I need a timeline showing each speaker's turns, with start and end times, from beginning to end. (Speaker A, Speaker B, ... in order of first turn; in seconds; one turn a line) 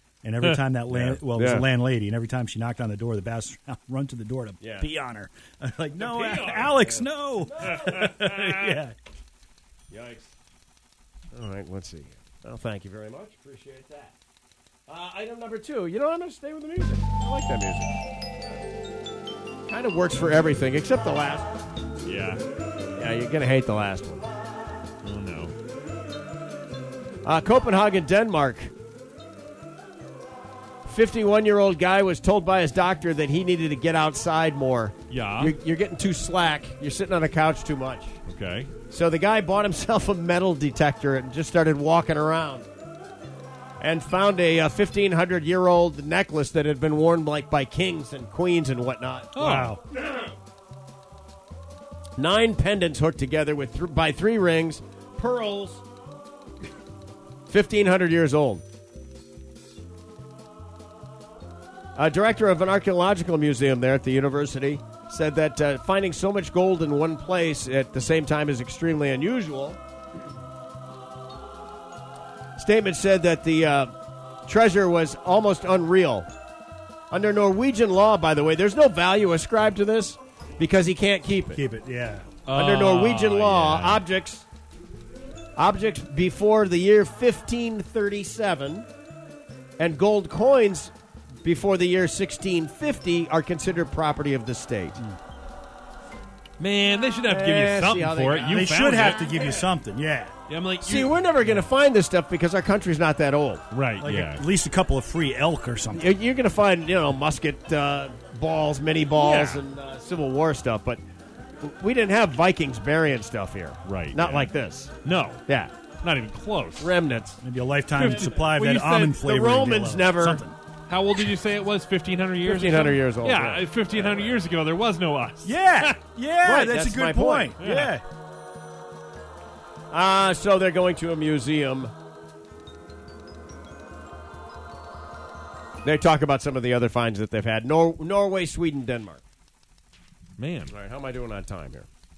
Speaker A: 0.2-8.9
Speaker B: 0.9-1.7
Speaker B: 4.6-4.9
Speaker C: 6.0-6.8
Speaker B: 6.8-8.2
Speaker C: 7.8-8.5
Speaker B: 9.9-10.3
Speaker B: 11.3-14.2
Speaker B: 14.9-18.6
Speaker B: 19.7-21.6
Speaker C: 22.0-22.4
Speaker B: 22.9-24.3
Speaker C: 25.0-25.5
Speaker B: 27.2-28.7
Speaker B: 30.9-38.2
Speaker C: 35.1-35.5
Speaker C: 38.3-38.7
Speaker B: 38.9-42.7
Speaker B: 43.8-49.3
Speaker C: 49.3-49.8
Speaker A: 49.4-49.8
Speaker B: 52.2-55.8
Speaker B: 57.5-58.6
Speaker B: 62.0-69.8
Speaker B: 72.6-73.9
Speaker B: 74.5-76.3
Speaker B: 77.1-81.6
Speaker A: 81.6-82.3
Speaker C: 82.5-84.0
Speaker B: 82.5-84.5
Speaker B: 85.6-88.9
Speaker B: 89.8-95.0
Speaker C: 96.6-99.5
Speaker B: 97.3-98.7
Speaker A: 98.5-100.3
Speaker C: 100.5-101.2
Speaker B: 100.8-103.6
Speaker C: 103.7-104.5
Speaker A: 104.0-106.1
Speaker B: 105.9-111.0
Speaker C: 109.1-109.6
Speaker B: 111.6-114.9
Speaker C: 113.8-114.5
Speaker C: 115.0-115.4
Speaker B: 115.5-115.7
Speaker C: 116.0-116.9
Speaker B: 116.8-117.4
Speaker A: 117.4-120.6
Speaker C: 118.0-119.1
Speaker B: 119.1-120.4
Speaker C: 120.9-125.5
Speaker B: 122.4-124.4
Speaker A: 125.4-128.0
Speaker B: 126.4-127.5
Speaker C: 127.6-128.0
Speaker B: 129.9-131.9
Speaker B: 135.8-139.2
Speaker C: 140.4-140.7
Speaker B: 140.7-141.9